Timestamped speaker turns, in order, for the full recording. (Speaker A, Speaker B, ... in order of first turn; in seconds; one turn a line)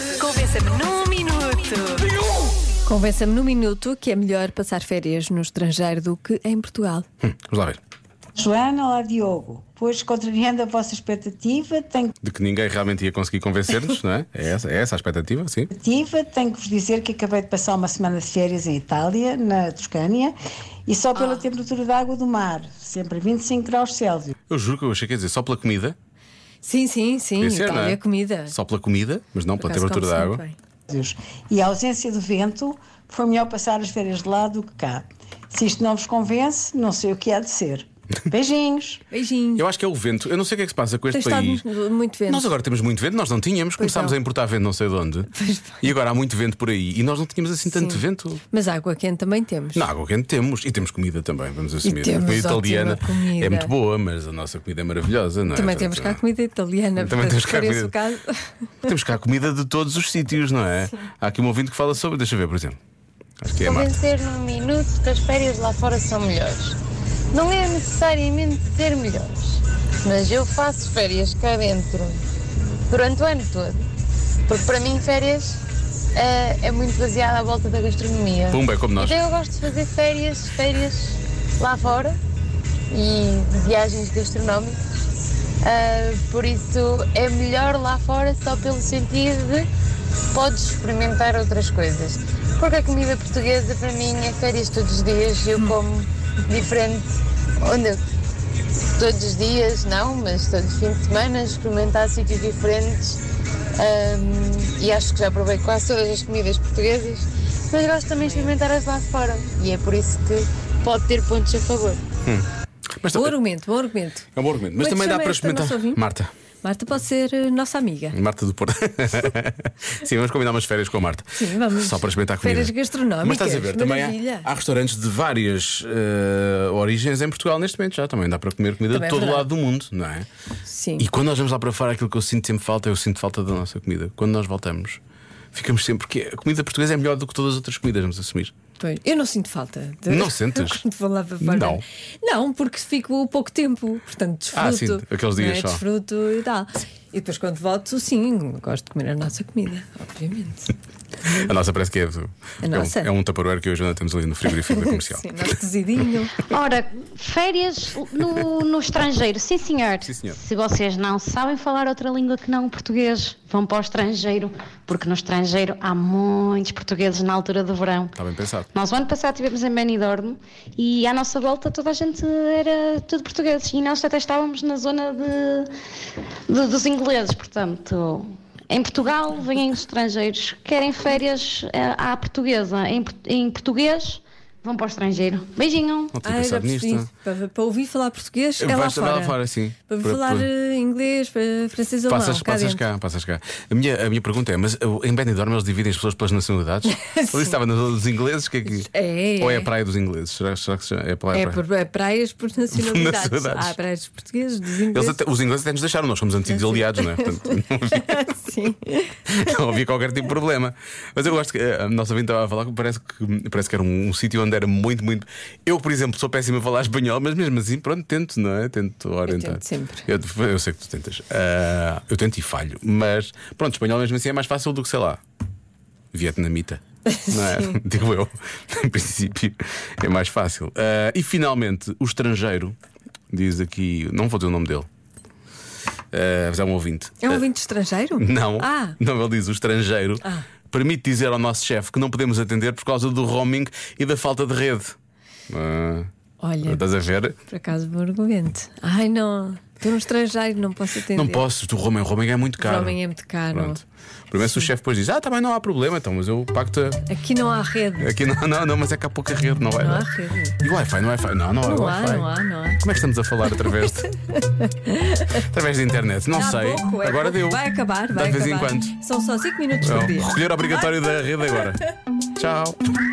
Speaker A: 0.1-2.1
Speaker A: 2.8-7.1
Speaker B: 7.2-7.8
Speaker C: 8.4-12.1
Speaker B: 12.2-15.7
Speaker C: 15.7-20.3
Speaker C: 20.9-24.3
Speaker A: 21.2-21.4
Speaker B: 24.5-26.0
Speaker A: 26.6-28.6
Speaker B: 27.4-30.4
Speaker A: 29.6-30.6
Speaker C: 30.9-39.0
Speaker A: 39.1-39.6
Speaker B: 39.6-41.6
Speaker A: 41.1-42.5
Speaker B: 42.3-45.3
Speaker A: 43.8-44.2
Speaker A: 45.3-45.9
Speaker B: 45.8-48.4
Speaker A: 47.7-49.9
Speaker B: 49.8-56.2
Speaker A: 51.8-53.7
Speaker A: 55.5-58.9
Speaker B: 57.0-57.9
Speaker B: 58.8-62.8
Speaker B: 63.4-64.0
Speaker D: 63.6-66.8
Speaker D: 67.3-72.2
Speaker D: 72.9-73.9
Speaker D: 74.5-75.6
Speaker D: 76.2-82.2
Speaker B: 78.5-79.2
Speaker D: 82.9-84.8
Speaker D: 85.6-89.7
Speaker D: 90.3-98.0
Speaker D: 99.0-103.2
Speaker D: 103.8-112.1
Speaker A: 108.2-108.6
Speaker B: 113.0-113.3
Speaker A: 113.1-116.0
Speaker B: 114.4-116.3
Speaker A: 116.6-118.2
Speaker B: 118.1-130.3
Speaker A: 121.3-124.5
Speaker A: 128.9-129.5
Speaker A: 130.7-131.1
Speaker B: 131.0-135.0
Speaker B: 135.5-138.5
Speaker A: 138.8-151.5
Speaker B: 140.1-140.8
Speaker B: 141.4-141.8
Speaker B: 144.5-145.8
Speaker B: 151.3-155.3
Speaker A: 152.6-153.1
Speaker A: 154.6-156.4
Speaker E: 156.4-168.2
Speaker B: 160.0-160.4
Speaker B: 168.2-168.7
Speaker E: 168.7-175.7
Speaker E: 176.5-186.1
Speaker B: 186.1-187.1
Speaker A: 186.2-189.4
Speaker B: 188.6-190.5
Speaker A: 189.9-192.8
Speaker B: 192.1-198.9
Speaker A: 196.9-197.6
Speaker A: 198.7-199.7
Speaker B: 199.4-201.6
Speaker A: 201.3-205.2
Speaker B: 202.7-203.8
Speaker B: 204.9-208.4
Speaker A: 206.5-209.5
Speaker B: 209.3-225.2
Speaker A: 219.3-220.1
Speaker B: 226.1-232.8
Speaker A: 227.1-227.8
Speaker B: 233.3-234.9
Speaker B: 236.1-237.4
Speaker A: 237.2-239.0
Speaker B: 238.2-244.9
Speaker B: 245.5-246.1
Speaker A: 246.4-251.4
Speaker B: 246.6-247.4
Speaker B: 251.2-253.0
Speaker A: 252.6-253.8
Speaker B: 253.5-257.0
Speaker A: 257.1-258.1
Speaker B: 258.0-264.1
Speaker A: 259.8-260.6
Speaker A: 261.6-262.8
Speaker A: 263.5-265.4
Speaker B: 265.4-268.9
Speaker A: 266.3-271.8
Speaker B: 269.8-271.8
Speaker B: 272.4-272.8